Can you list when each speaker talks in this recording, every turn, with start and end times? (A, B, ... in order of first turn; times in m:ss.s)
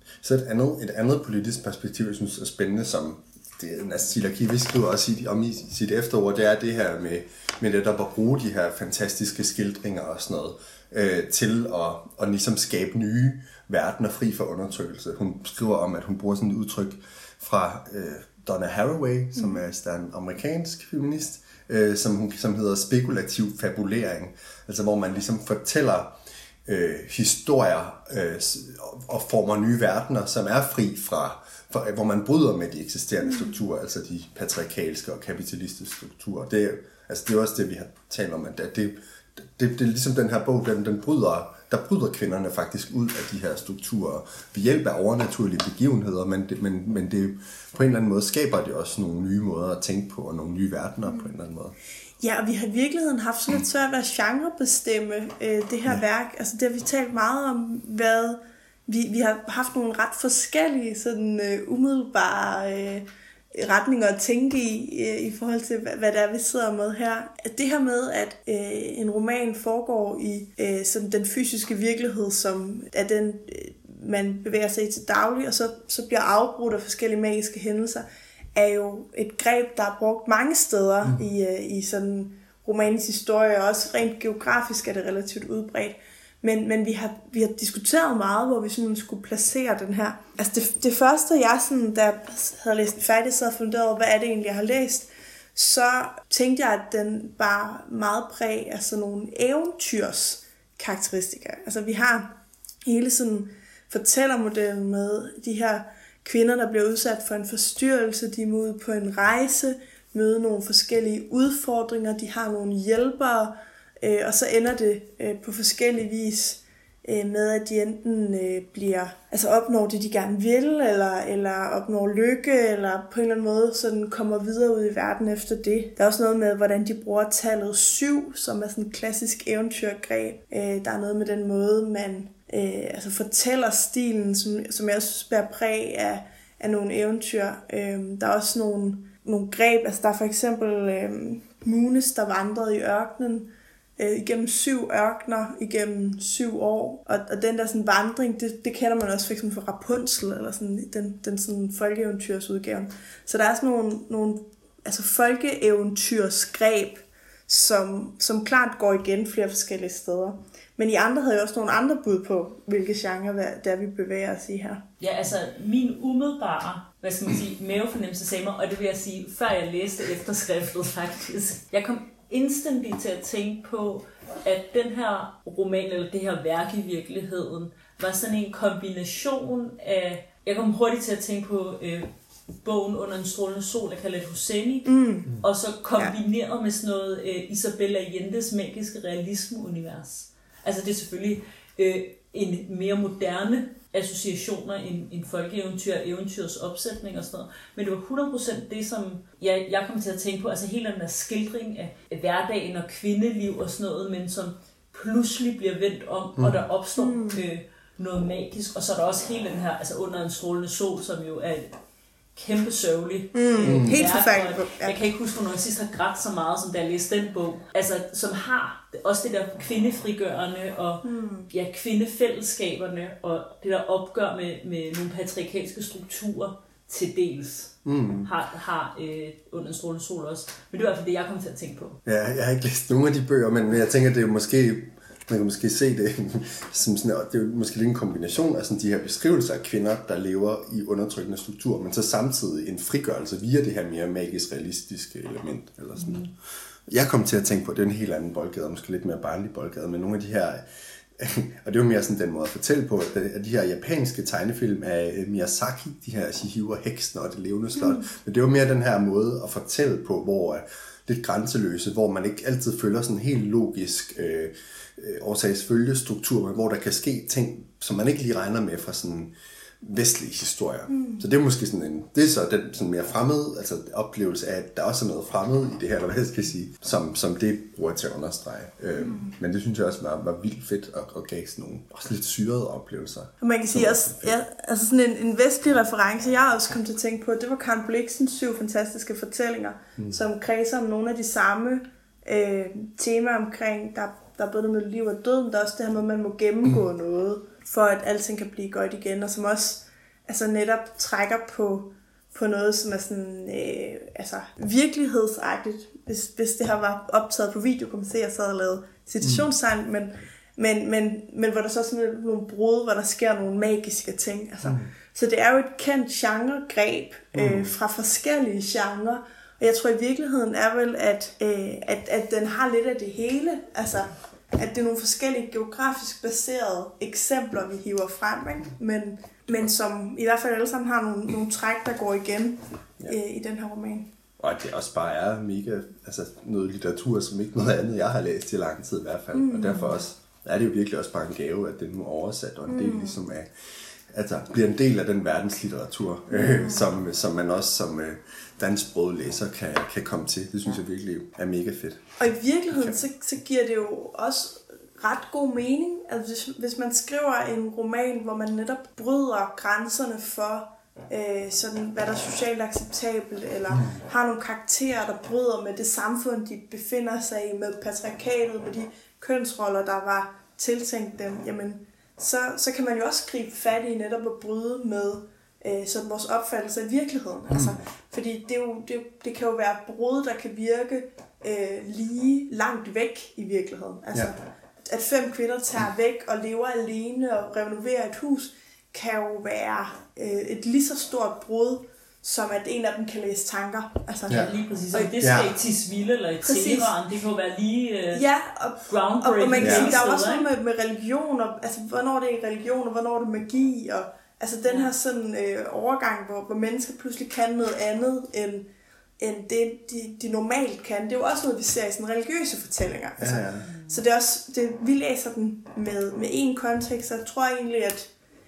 0:00.2-0:51.8 A
0:19.4-0:19.6 B
0:33.3-0:33.5 B
0:52.2-2:44.8 B
2:45.0-3:02.1 C
3:02.6-3:31.8 C
3:04.9-3:05.4 B
3:26.4-3:26.6 A
3:27.0-3:27.4 B
3:32.4-3:52.0 C
3:33.3-3:35.0 B
3:33.6-3:34.1 A
3:41.0-3:41.5 B
3:47.8-3:48.3 A
3:52.0-4:06.2 A
4:06.0-4:06.3 C
4:06.9-4:10.6 A
4:11.2-4:44.4 A
4:17.8-4:18.1 B
4:30.9-4:31.2 B
4:39.0-4:39.3 B
4:43.4-5:34.1 B
5:09.2-5:09.5 A
5:14.6-5:14.9 A
5:17.4-5:17.7 A
5:34.4-5:43.5 A
5:39.3-5:40.0 B
5:42.7-5:43.2 B
5:44.1-5:52.1 A
5:46.3-5:46.9 B
5:52.2-6:35.2 B
5:52.7-5:53.0 A
6:03.7-6:04.0 A
6:17.5-6:17.8 A
6:34.3-6:38.2 C
6:35.2-6:35.6 A
6:36.4-6:36.9 B
6:38.1-6:58.1 B
6:38.8-6:40.5 C
6:39.6-6:40.0 A
6:44.6-6:44.9 C
6:53.2-6:53.7 A
6:53.6-6:54.0 C